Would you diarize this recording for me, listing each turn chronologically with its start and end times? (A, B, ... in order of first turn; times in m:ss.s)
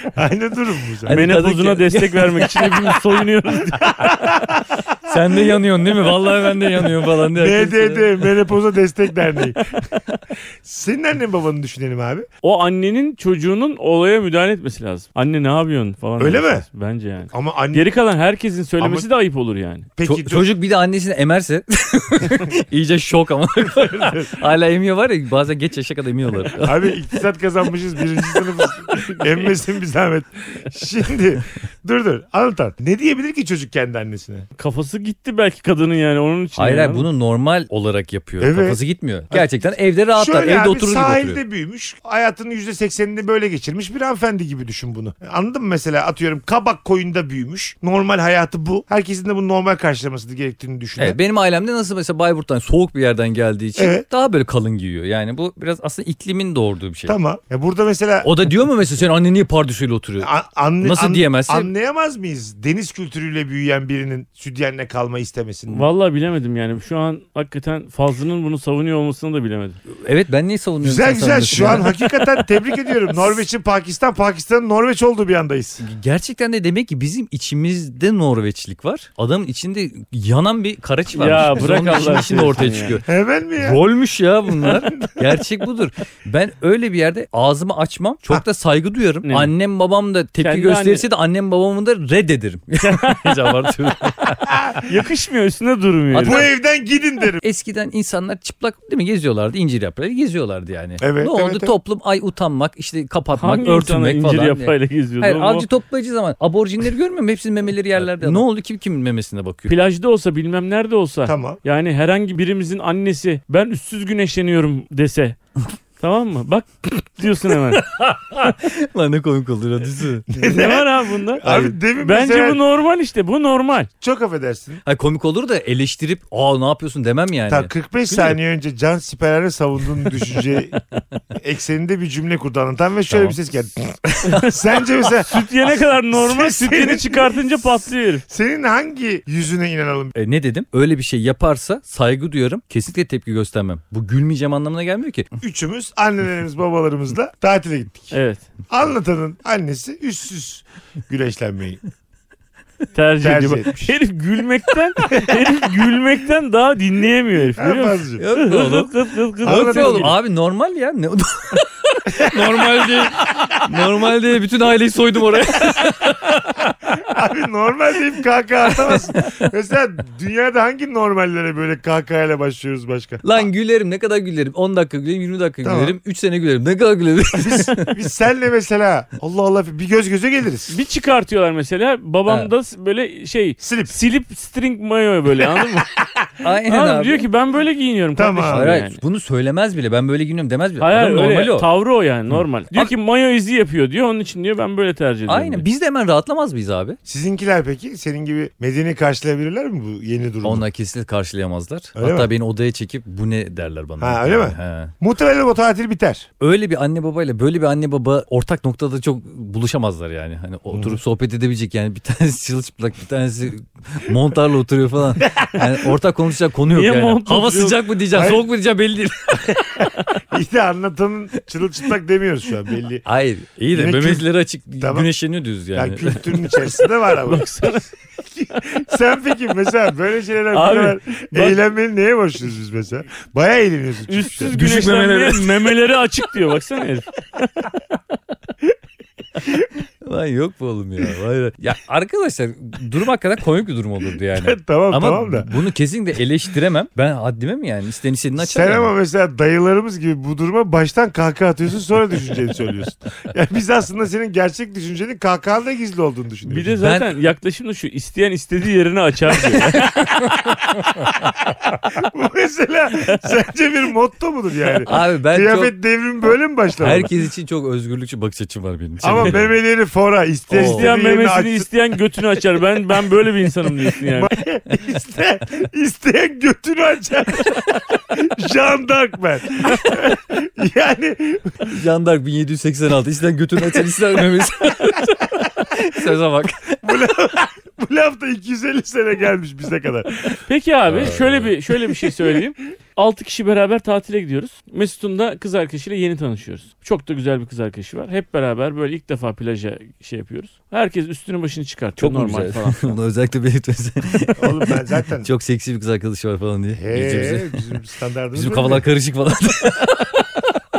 0:00.1-0:01.2 A
0:01.0-0:03.2 B
0:01.1-0:04.1 C
0:03.8-0:04.7 A
0:05.0-0:08.3 B
0:07.3-0:09.8 A
0:10.6-0:12.3 A
0:12.4-0:19.9 C
0:16.2-0:16.7 A
0:17.3-0:17.9 A
0:18.8-0:19.1 A
0:20.0-0:20.5 A
0:20.0-0:27.0 B
0:23.7-0:24.4 A
0:26.6-0:34.5 A
0:28.3-0:29.0 B
0:34.6-0:37.1 C
0:36.6-0:41.4 B
0:38.4-0:38.8 A
0:40.2-0:51.2 A
0:51.0-0:57.2 B
0:53.8-0:54.0 A
0:57.1-0:58.3 A
0:58.2-1:00.3 B
1:00.2-1:05.9 A
1:00.8-1:01.7 B
1:05.7-1:09.8 C
1:09.9-1:12.1 B
1:10.8-1:15.8 A
1:15.8-1:23.1 B
1:21.1-1:23.0 C
1:23.0-1:23.8 A
1:23.6-1:34.6 B
1:24.6-1:25.2 A
1:29.2-1:29.5 C
1:30.4-1:31.0 C
1:32.8-1:33.4 C
1:34.5-1:34.8 A
1:34.8-1:36.5 C
1:36.1-1:36.5 B
1:36.2-1:37.4 A
1:37.4-1:49.7 B
1:41.0-1:41.7 A
1:43.4-1:45.7 C
1:49.7-1:55.4 C
1:51.3-1:51.6 A
1:56.0-1:57.8 C
1:57.7-2:00.3 B
2:00.3-2:03.9 C
2:00.3-2:02.6 A
2:04.0-2:04.8 A
2:04.8-2:08.4 B
2:07.5-2:10.8 A
2:11.4-2:15.5 A
2:13.1-2:13.4 B
2:14.2-2:14.5 B
2:15.0-2:18.2 C
2:16.2-2:17.4 A
2:18.3-2:20.2 A
2:20.2-2:25.3 B
2:25.4-2:28.2 A
2:28.1-2:28.4 C
2:28.7-2:31.8 A
2:32.9-2:40.1 C
2:33.2-2:34.0 A
2:35.0-2:35.4 A
2:37.6-2:38.2 A
2:38.2-2:46.7 B
2:39.4-2:40.1 A
2:42.1-2:43.7 A
2:47.0-2:53.4 A
2:48.7-2:49.5 B
2:53.2-2:57.9 B
2:55.6-2:56.0 A
2:57.3-3:00.8 A
3:00.7-3:05.9 C
3:03.6-3:03.9 A
3:06.4-3:07.3 B
3:06.7-3:09.0 C
3:08.2-3:08.7 A
3:08.5-3:11.7 B
3:10.8-3:15.7 C
3:12.3-3:12.9 B
3:15.3-3:17.0 B
3:17.1-3:20.6 A
3:20.4-3:24.9 B
3:22.0-3:22.3 A
3:24.0-3:26.3 A
3:26.4-3:39.8 B
3:35.2-3:35.9 A
3:36.7-3:37.8 C
3:38.1-3:38.4 A
3:39.6-3:43.0 A
3:43.0-3:46.7 B
3:43.7-3:44.2 A
3:44.8-3:45.1 A
3:45.8-3:47.7 A
3:47.2-3:47.9 C
3:48.4-3:54.6 A
3:50.5-3:51.6 C
3:54.1-3:57.5 C
3:54.5-3:55.7 B
4:00.0-4:08.9 B
4:04.3-4:05.5 A
4:08.4-4:16.7 A
4:16.5-4:20.2 C
4:16.8-4:17.1 B
4:19.8-4:27.1 A
4:24.8-4:25.7 B
4:26.8-4:29.6 B
4:29.0-4:31.7 A
4:29.0-4:29.4 C
4:30.5-4:30.9 B
4:30.6-4:34.3 C
4:33.9-4:41.8 A
4:41.7-4:47.0 B
4:45.2-4:46.1 A
4:46.8-4:50.4 A
4:50.5-5:03.0 C
4:50.9-4:51.5 B
4:51.9-4:52.3 A
5:02.0-5:07.6 B
5:04.4-5:05.3 A
5:06.7-5:08.8 A
5:08.3-5:10.4 B